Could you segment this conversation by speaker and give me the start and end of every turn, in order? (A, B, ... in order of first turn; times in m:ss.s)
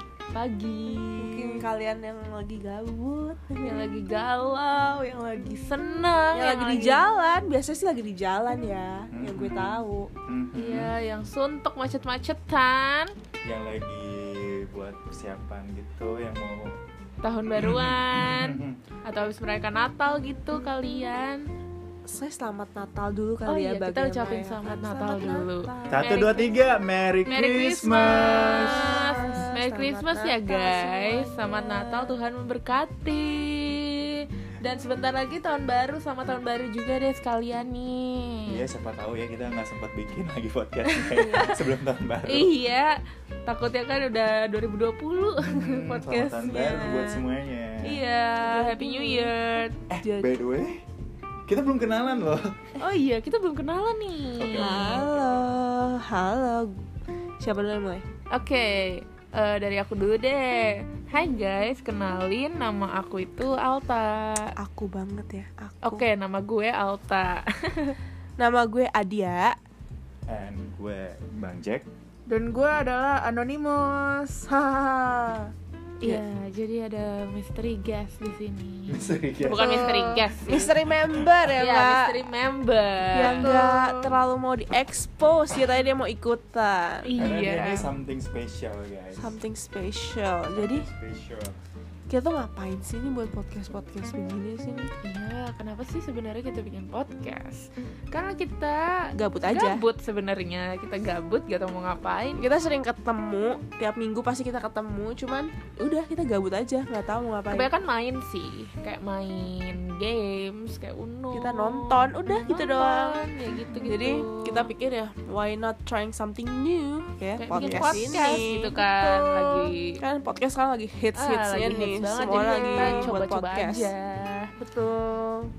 0:00.3-0:01.6 A
0:01.2-0:04.0 B
0:03.6-0:07.0 A
0:06.3-0:10.1 B
0:09.1-0:10.9 C
0:10.5-0:13.1 A
0:13.4-0:16.8 C
0:17.2-0:21.5 A
0:17.6-0:18.8 C
0:22.0-0:26.2 B
0:23.4-0:26.6 A
0:25.9-0:29.2 C
0:27.2-0:38.5 A
0:28.5-0:32.2 B
0:38.4-0:42.5 C
0:40.8-0:41.6 A
0:42.2-0:47.2 A
0:45.4-0:48.0 C
0:47.8-0:49.8 A
0:48.4-0:49.3 B
0:49.9-0:50.8 C
0:50.0-0:50.3 B
0:51.5-0:52.6 C
0:52.8-0:55.0 A
0:54.4-0:55.5 C
0:54.6-0:56.8 B
0:57.4-0:58.0 B
0:58.3-1:04.5 A
1:04.6-1:06.0 B
1:05.8-1:08.0 A
1:08.4-1:09.6 B
1:10.3-1:11.8 C
1:12.3-1:15.5 D
1:16.0-1:20.8 A
1:18.9-1:20.0 C
1:19.6-1:20.3 D
1:20.4-1:22.1 B
1:20.6-1:21.5 C
1:21.6-1:23.7 A
1:23.1-1:27.1 B
1:23.2-1:24.1 D
1:27.0-1:27.9 A
1:27.2-1:29.4 C
1:29.2-1:30.8 B
1:30.5-1:31.6 C
1:32.1-1:34.9 B
1:35.0-1:42.5 A
1:39.2-1:39.8 B
1:42.4-1:47.7 B
1:47.5-1:54.7 A
1:51.3-2:03.9 B
1:57.4-2:00.0 A
2:01.1-2:04.5 A
2:02.4-2:02.9 D
2:04.6-2:05.4 B